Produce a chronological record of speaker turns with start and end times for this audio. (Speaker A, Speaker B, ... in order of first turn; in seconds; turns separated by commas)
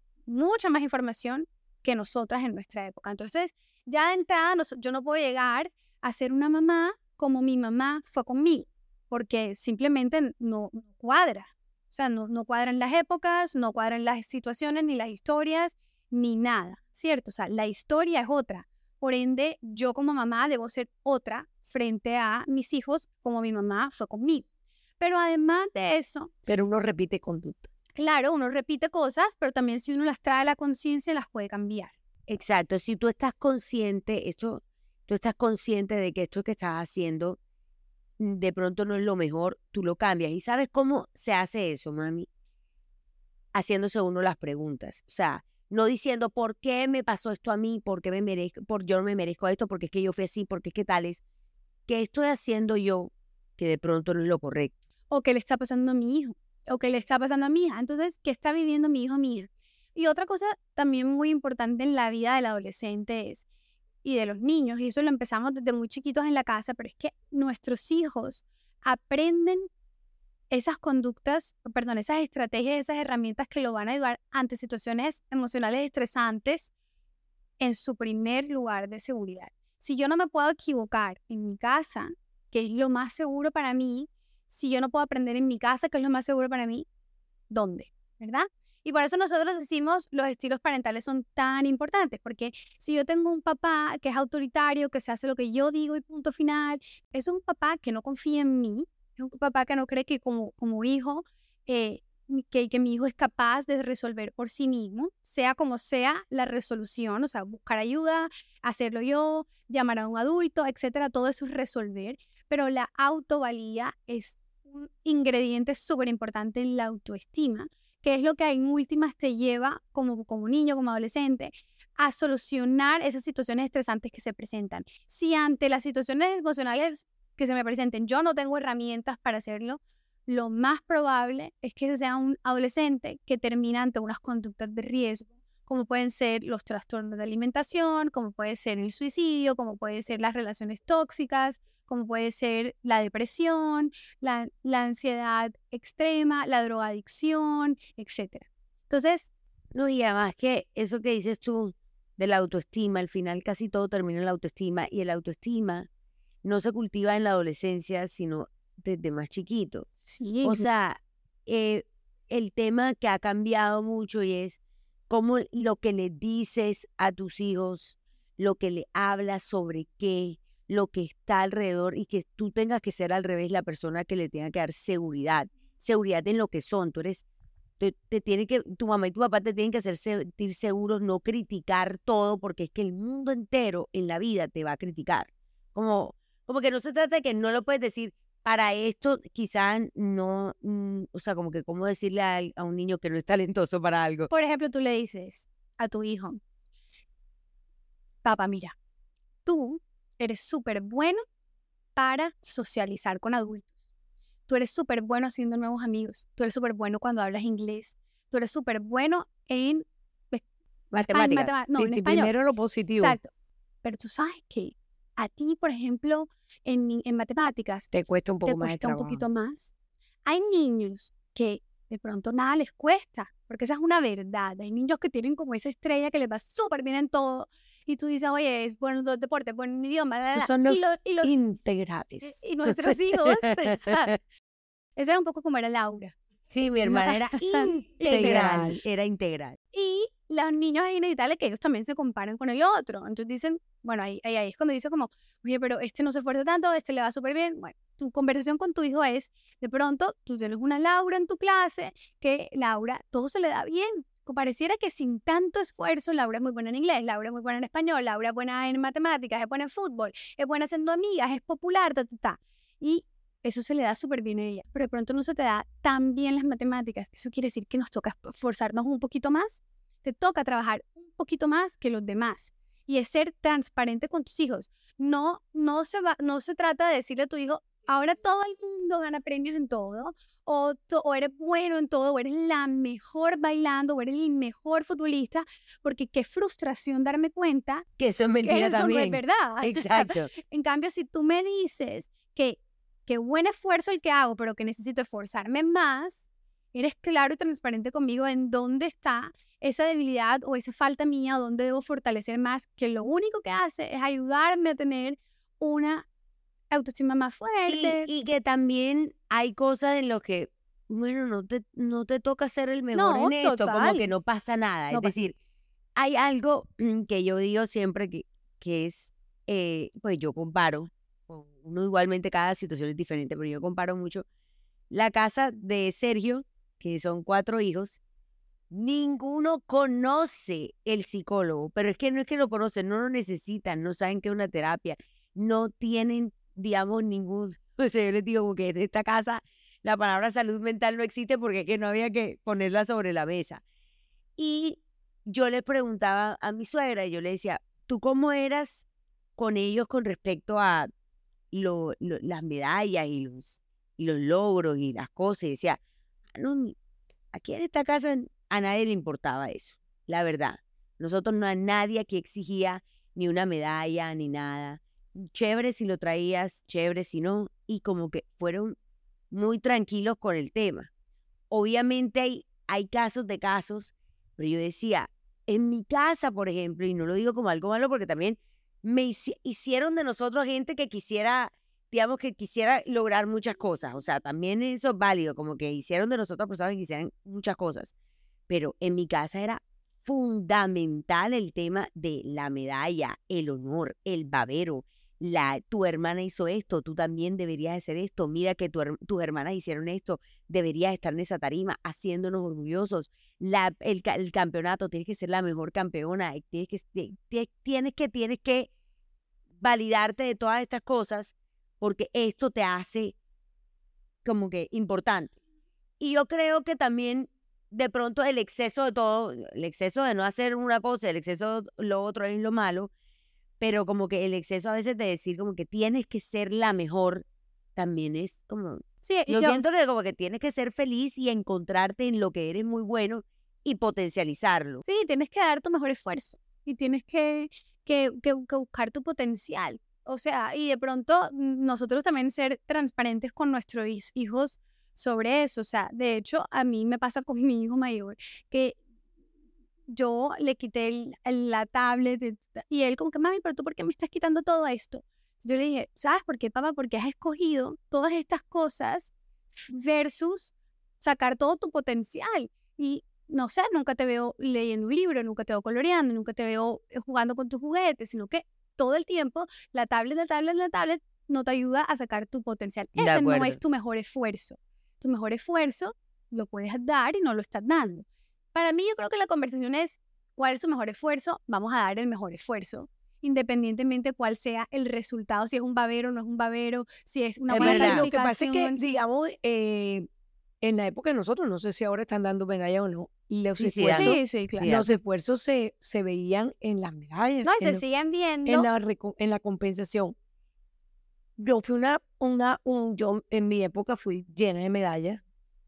Speaker A: 0.3-24.4, Speaker A: 25.0-26.3, Speaker B: 26.5-27.7, Speaker A: 27.9-31.9, Speaker C: 32.3-37.4, Speaker C: 38.2-42.3, Speaker C: 43.5-51.2, Speaker C: 51.9-54.7, Speaker A: 55.1-63.4, Speaker A: 64.0-69.7, Speaker A: 70.5-76.7, Speaker A: 77.6-86.8, Speaker A: 87.5-149.3, Speaker C: 149.7-155.9, Speaker C: 156.4-159.9, Speaker A: 160.1-160.6, Speaker C: 160.4-177.2, Speaker C: 177.8-194.3, Speaker A: 194.3-196.4, Speaker A: 198.2-198.7, Speaker A: 199.4-201.2, Speaker A: 201.9-203.7, Speaker A: 204.5-210.4, Speaker C: 210.9-211.5, Speaker A: 211.1-212.3, Speaker B: 211.7-213.2, Speaker A: 213.0-213.3, Speaker A: 213.8-217.9, Speaker B: 217.9-219.2, Speaker A: 218.4-219.7, Speaker A: 220.2-231.4, Speaker B: 230.3-232.9, Speaker A: 232.2-234.1, Speaker C: 233.2-234.2, Speaker A: 235.0-236.1, Speaker C: 236.5-239.6, Speaker A: 236.8-238.7, Speaker B: 238.1-238.8, Speaker A: 239.7-287.9, Speaker C: 288.0-290.3, Speaker A: 288.4-306.1, Speaker A: 306.7-308.1, Speaker C: 307.7-315.3, Speaker A: 312.9-314.1, Speaker C: 315.9-324.2, Speaker C: 324.9-328.0, Speaker C: 328.7-343.6, Speaker C: 344.4-348.8, Speaker C: 349.4-350.9, Speaker C: 351.5-355.8, Speaker C: 356.3-356.7, Speaker C: 357.3-368.8, Speaker C: 369.3-370.9, Speaker C: 371.5-387.9, Speaker C: 388.5-408.7, Speaker C: 409.6-413.1, Speaker C: 414.2-415.4, Speaker C: 416.0-422.9, Speaker C: 423.6-427.2, Speaker C: 427.8-434.8, Speaker A: 429.0-429.6, Speaker A: 434.9-448.8, Speaker A: 449.9-459.1, Speaker A: 459.7-488.9, Speaker C: 473.0-473.6, Speaker C: 487.5-488.1, Speaker B: 487.5-490.1, Speaker B: 490.6-497.8, Speaker C: 493.6-494.9, Speaker A: 493.9-494.7, Speaker A: 497.4-498.7, Speaker B: 498.4-500.1, Speaker B: 501.4-505.2